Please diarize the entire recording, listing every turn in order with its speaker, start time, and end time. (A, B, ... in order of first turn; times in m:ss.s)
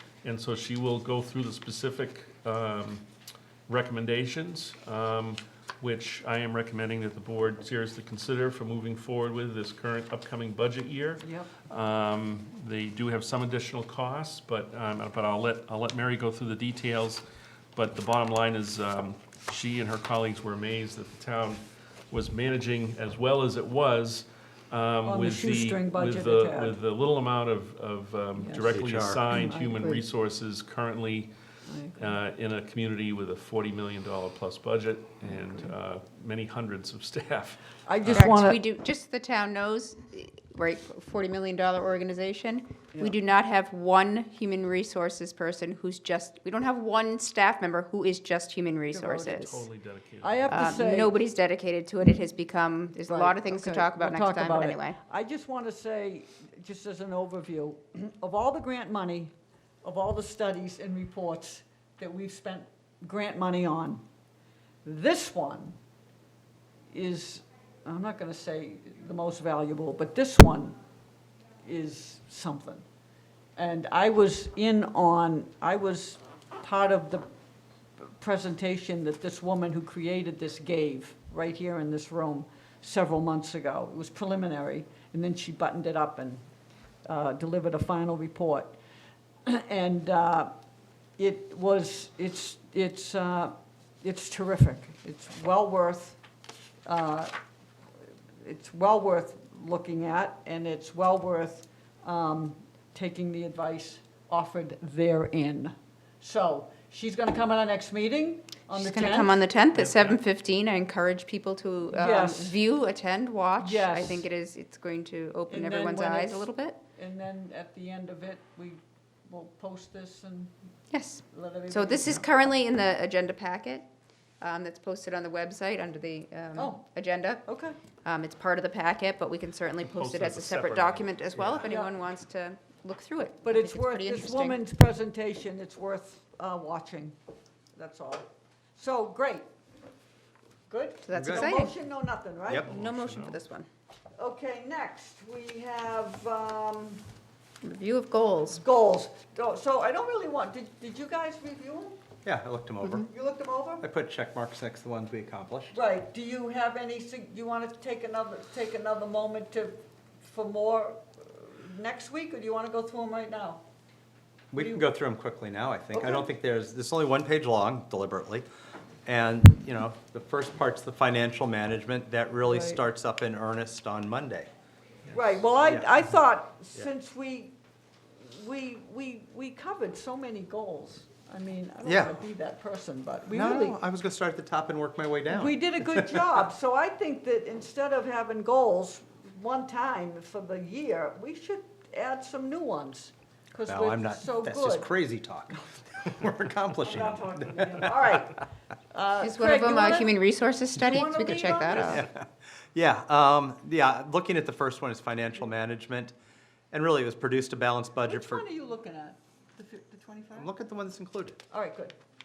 0:00.2-0:03.0 A
0:03.7-0:17.2 A
0:11.2-0:11.5 B
0:17.7-0:31.3 A
0:25.0-0:26.8 B
0:28.4-0:28.7 B
0:28.7-0:29.2 C
0:29.3-0:30.0 B
0:31.6-0:32.2 B
0:32.0-0:38.2 A
0:35.2-0:35.7 B
0:37.8-0:38.6 B
0:38.1-0:49.6 D
0:48.9-0:49.6 B
0:49.4-0:50.7 A
0:50.2-0:51.2 B
0:50.5-0:55.0 D
0:53.1-1:04.0 B
1:04.8-1:05.8 B
1:06.9-1:10.8 B
1:11.6-1:12.8 B
1:13.6-1:17.2 B
1:18.0-1:26.4 B
1:27.0-1:28.8 B
1:29.4-1:30.5 B
1:31.2-1:36.2 B
1:36.8-1:37.3 B
1:38.4-1:49.4 B
1:48.7-1:56.8 D
1:49.8-1:50.2 A
1:51.9-1:52.6 B
1:53.6-1:54.2 B
1:55.5-2:00.5 B
2:00.9-2:03.9 D
2:01.3-2:02.2 B
2:04.4-2:07.4 D
2:06.6-2:06.8 B
2:07.4-2:07.8 B
2:08.0-2:14.6 D
2:09.8-2:11.2 A
2:11.4-2:11.7 C
2:11.6-2:11.9 B
2:13.4-2:17.2 B
2:17.7-2:19.5 B
2:20.7-2:22.7 B
2:21.0-2:21.7 D
2:21.1-2:21.6 C
2:22.6-2:23.7 D
2:22.7-2:23.4 A
2:24.2-2:27.0 B
2:27.6-2:28.6 D
2:28.6-2:32.0 B
2:32.2-2:33.1 C
2:33.0-2:33.8 B
2:33.8-2:35.8 C
2:35.7-2:43.6 B
2:44.5-2:48.4 C
2:44.5-2:44.8 B
2:45.9-2:46.3 B
2:49.0-2:54.5 C
2:52.4-2:52.8 B
2:55.1-2:57.5 B
2:55.6-2:55.9 C
2:58.2-3:03.8 B
3:01.8-3:02.2 C
3:03.3-3:06.2 C
3:05.3-3:14.9 B
3:13.6-3:17.8 C
3:16.8-3:20.2 B
3:19.2-3:22.0 D
3:20.7-3:22.1 B
3:21.8-3:26.1 C
3:26.7-3:28.4 C
3:28.0-3:30.5 B
3:30.3-3:31.4 C
3:31.5-3:32.0 B